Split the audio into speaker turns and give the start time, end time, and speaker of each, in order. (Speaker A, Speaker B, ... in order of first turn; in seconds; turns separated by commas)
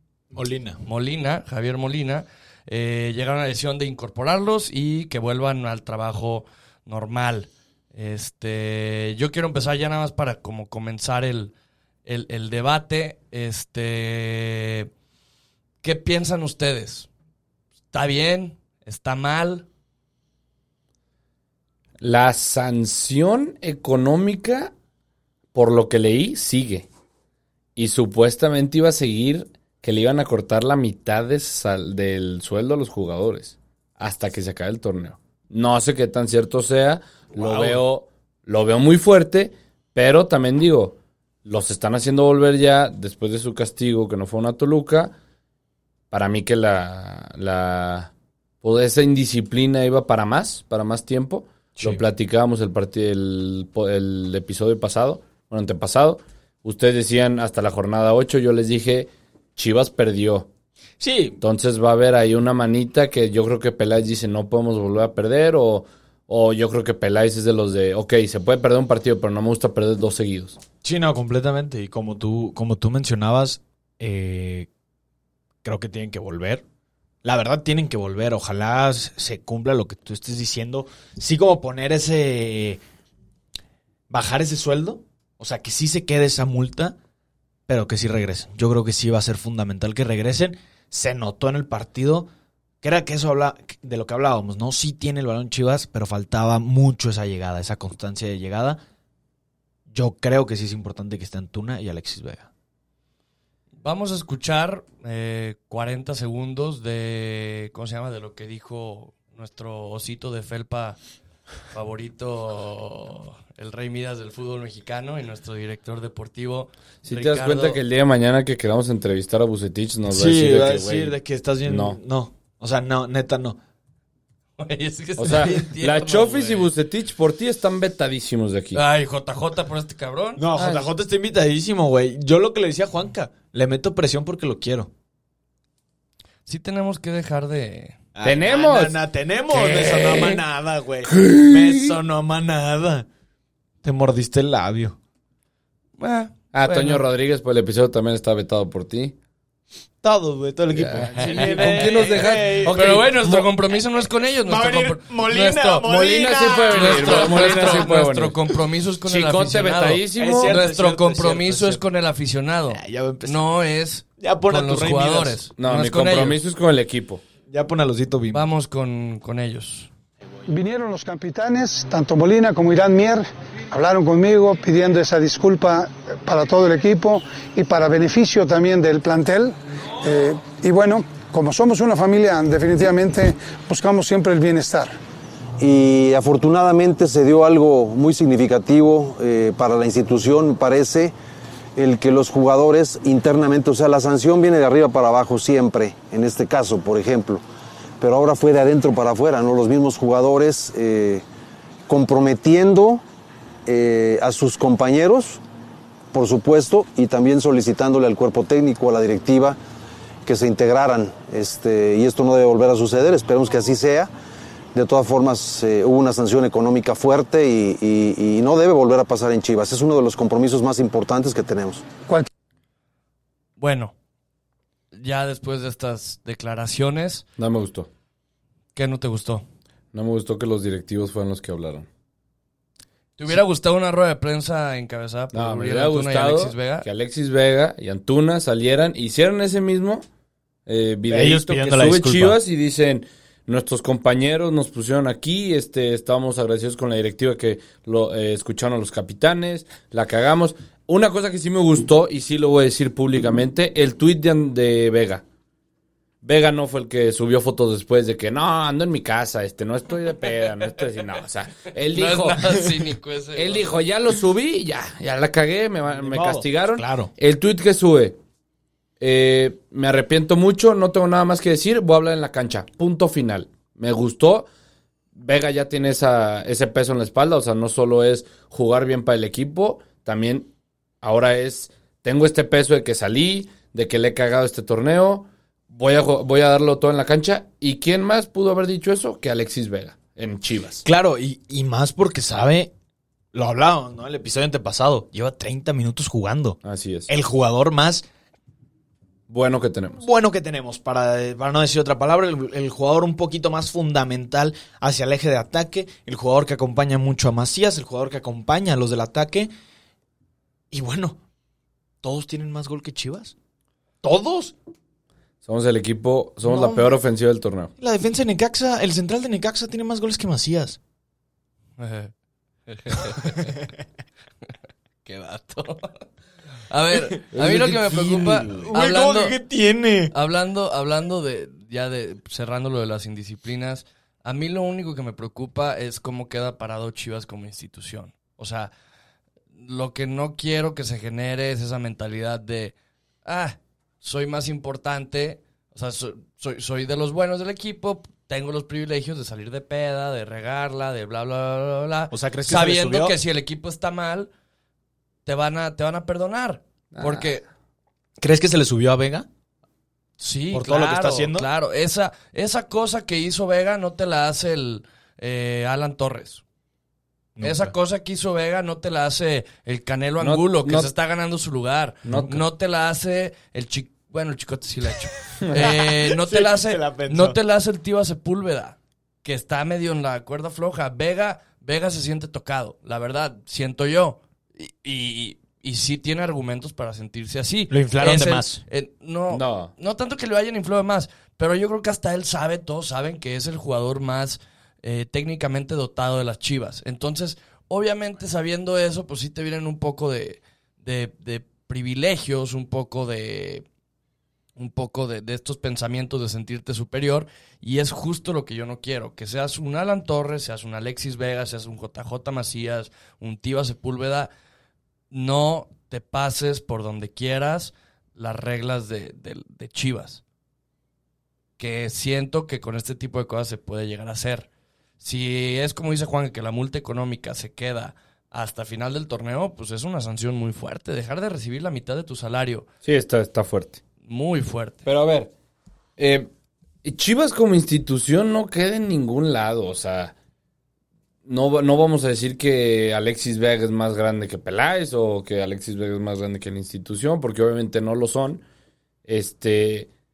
Speaker A: 0.3-0.8, Speaker B: 0.8-11.5, Speaker B: 12.1-14.9, Speaker B: 15.8-17.1, Speaker B: 17.9-19.6, Speaker C: 22.0-24.7, Speaker C: 25.5-26.9, Speaker C: 27.8-45.1, Speaker A: 37.4-37.8, Speaker C: 46.1-60.5, Speaker A: 61.0-61.4, Speaker C: 61.4-70.6, Speaker A: 70.8-74.7, Speaker A: 75.6-76.6, Speaker A: 77.2-82.8, Speaker A: 84.1-86.9, Speaker A: 87.7-92.3, Speaker A: 92.8-98.8, Speaker A: 99.9-102.5, Speaker B: 103.8-111.0, Speaker B: 111.7-117.8, Speaker C: 117.0-121.2, Speaker A: 120.1-123.6, Speaker C: 121.7-122.0, Speaker B: 124.6-126.7, Speaker C: 125.2-128.8, Speaker B: 128.7-130.4, Speaker A: 130.4-134.9, Speaker C: 130.5-130.9, Speaker B: 136.5-138.0, Speaker A: 138.1-143.1, Speaker C: 138.2-139.0, Speaker C: 139.5-140.4, Speaker C: 141.0-142.0, Speaker A: 143.8-144.9, Speaker B: 146.0-147.0, Speaker C: 146.5-149.2, Speaker A: 150.0-152.9, Speaker C: 150.7-153.5, Speaker B: 151.0-155.9, Speaker A: 154.5-157.9, Speaker C: 155.8-158.3, Speaker B: 156.7-166.4, Speaker C: 159.1-160.6, Speaker A: 160.1-161.8, Speaker A: 162.7-163.4, Speaker A: 164.2-165.4, Speaker C: 165.6-167.2, Speaker A: 167.5-168.4, Speaker B: 168.3-169.9, Speaker D: 170.5-184.9, Speaker E: 185.6-191.1, Speaker E: 191.8-197.4, Speaker E: 198.0-201.2, Speaker E: 201.9-203.0, Speaker E: 203.7-205.4, Speaker E: 206.1-209.6, Speaker E: 210.2-214.1, Speaker E: 214.7-221.8, Speaker B: 223.6-223.9, Speaker B: 224.9-227.2, Speaker C: 227.4-227.9, Speaker B: 228.7-229.4, Speaker C: 229.9-231.9, Speaker B: 233.2-236.9, Speaker C: 235.3-240.0, Speaker C: 240.7-255.2, Speaker A: 241.1-242.4, Speaker C: 256.2-262.5, Speaker B: 261.9-263.8, Speaker C: 263.3-268.2, Speaker A: 265.9-267.1, Speaker C: 269.0-274.5, Speaker C: 275.1-280.5, Speaker C: 281.0-290.8, Speaker A: 290.8-292.7, Speaker A: 293.3-298.0, Speaker C: 296.6-297.1, Speaker C: 299.3-300.0, Speaker A: 300.0-309.5, Speaker A: 310.7-311.2, Speaker A: 312.0-313.3, Speaker A: 314.0-314.5, Speaker C: 315.4-317.7, Speaker A: 316.4-317.0, Speaker A: 317.8-320.8, Speaker B: 321.8-322.1, Speaker B: 322.7-323.6, Speaker B: 325.0-326.0, Speaker B: 326.7-329.4, Speaker C: 327.3-328.7, Speaker A: 327.9-330.1, Speaker B: 330.1-338.7, Speaker B: 339.6-354.3, Speaker A: 352.1-353.1, Speaker B: 355.2-357.4, Speaker C: 356.9-357.3, Speaker A: 358.2-359.3, Speaker B: 360.2-366.4, Speaker A: 360.5-361.5, Speaker A: 367.4-367.7, Speaker B: 367.4-403.6, Speaker C: 370.2-370.9, Speaker C: 372.0-372.4, Speaker C: 375.4-375.7, Speaker A: 375.6-377.4, Speaker A: 387.7-388.6, Speaker C: 389.3-389.7, Speaker B: 404.6-414.3, Speaker B: 415.1-420.2, Speaker B: 421.6-424.5, Speaker B: 425.0-432.6, Speaker C: 432.8-433.8, Speaker B: 434.0-434.8, Speaker C: 434.9-435.3, Speaker C: 436.0-436.3, Speaker C: 436.8-440.1, Speaker C: 441.2-448.4, Speaker C: 449.1-449.9